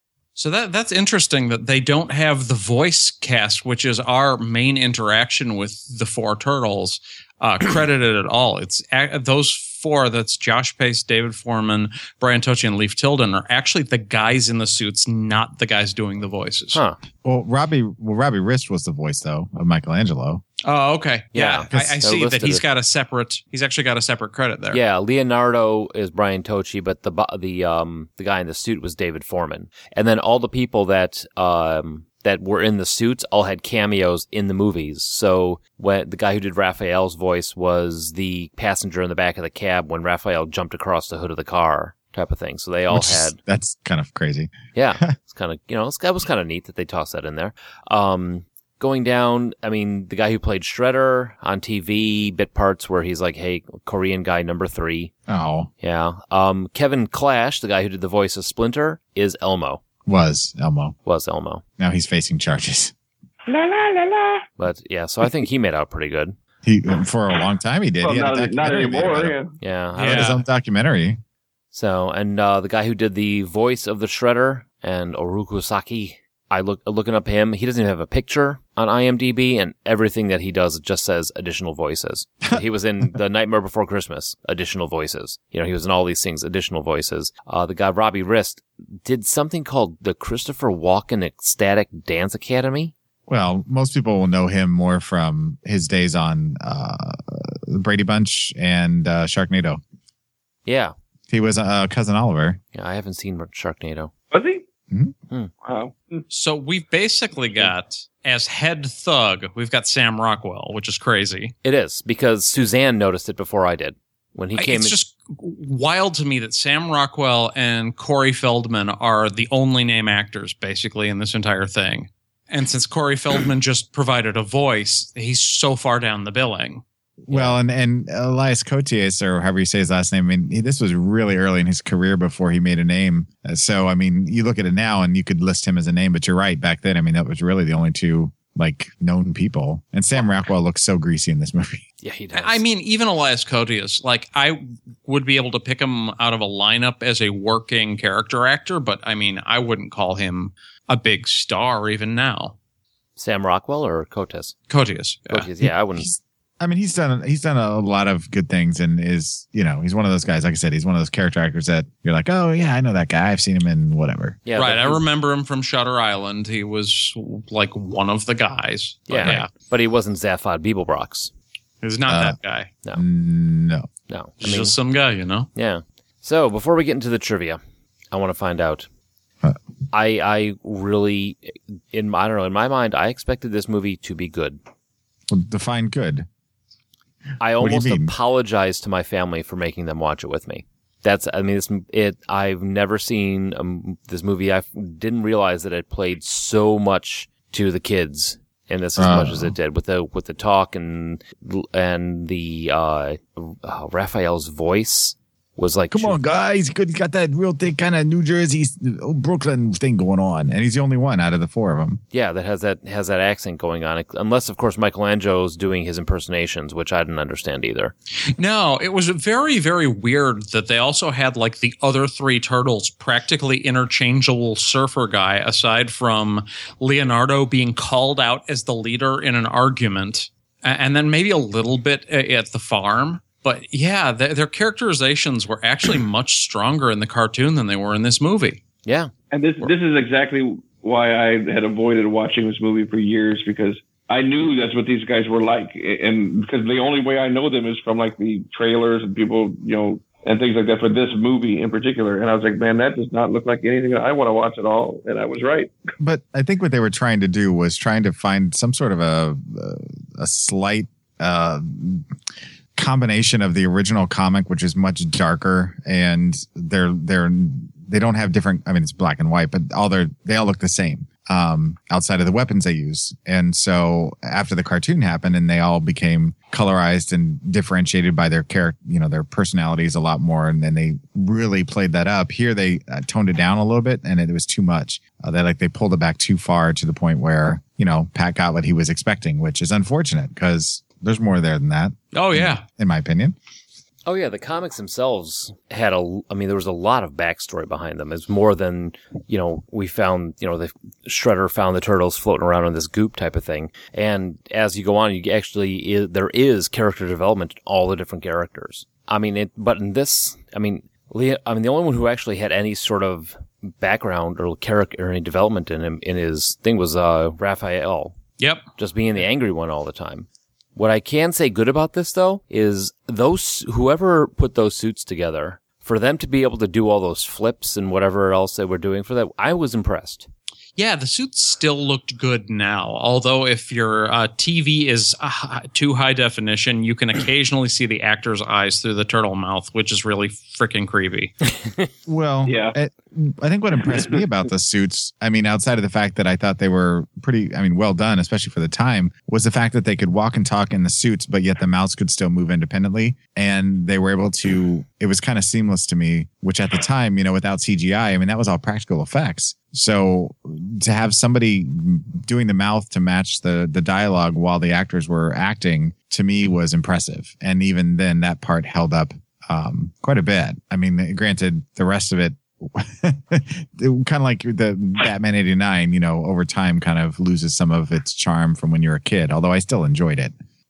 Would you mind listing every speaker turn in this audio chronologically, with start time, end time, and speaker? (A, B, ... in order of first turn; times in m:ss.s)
0:00.4-0:16.8 A
0:16.7-0:17.0 B
0:17.2-0:20.4 C
0:20.6-0:24.8 A
0:21.3-0:22.6 B
0:21.7-0:22.0 C
0:24.7-0:43.4 B
0:42.9-0:45.1 C
0:44.7-0:55.1 B
0:55.3-0:55.7 C
0:55.8-0:59.8 B
1:00.0-1:01.0 C
1:01.0-1:01.6 B
1:01.8-1:02.9 C
1:03.5-1:04.4 D
1:04.6-1:06.4 B
1:06.6-1:09.4 C
1:08.0-1:09.5 D
1:09.6-1:10.3 B
1:10.0-1:10.4 A
1:10.0-1:11.2 C
1:11.7-1:32.9 B
1:33.3-1:39.8 C
1:40.6-1:40.9 B
1:41.3-1:42.6 C
1:42.7-1:44.1 B
1:44.3-1:44.6 D
1:45.6-1:46.2 D
1:46.3-1:51.5 A
1:51.6-1:55.0 B
1:54.6-2:06.8 A
2:07.2-2:21.8 C
2:07.3-2:07.6 B
2:22.0-2:22.6 B
2:22.3-2:32.5 A
2:33.2-2:34.5 B
2:34.7-2:35.5 A
2:35.3-2:36.1 B
2:35.6-2:44.4 C
2:44.4-2:45.0 B
2:44.6-2:49.5 A
2:49.1-2:51.3 B
2:51.8-2:52.7 A
2:52.1-2:52.4 C
2:52.9-2:53.9 C
2:54.1-2:54.8 B
2:54.4-2:55.5 A
2:55.5-2:57.6 B
2:58.1-2:58.9 B
2:59.9-3:04.6 B
3:05.3-3:06.2 C
3:07.4-3:26.2 B
3:07.6-3:08.1 C
3:19.0-3:19.5 C
3:25.9-3:32.0 C
3:32.1-3:37.9 B
3:38.4-3:58.6 A
3:58.8-3:59.1 B
3:59.3-4:15.7 D
4:16.0-4:22.1 C
4:22.8-4:53.4 C
4:52.1-4:52.6 A
4:54.0-5:18.2 B
5:18.4-5:18.6 A
5:18.8-5:30.3 B
5:30.8-5:41.5 A
5:42.0-6:20.3 C
5:42.4-5:42.7 D
5:43.9-5:44.2 D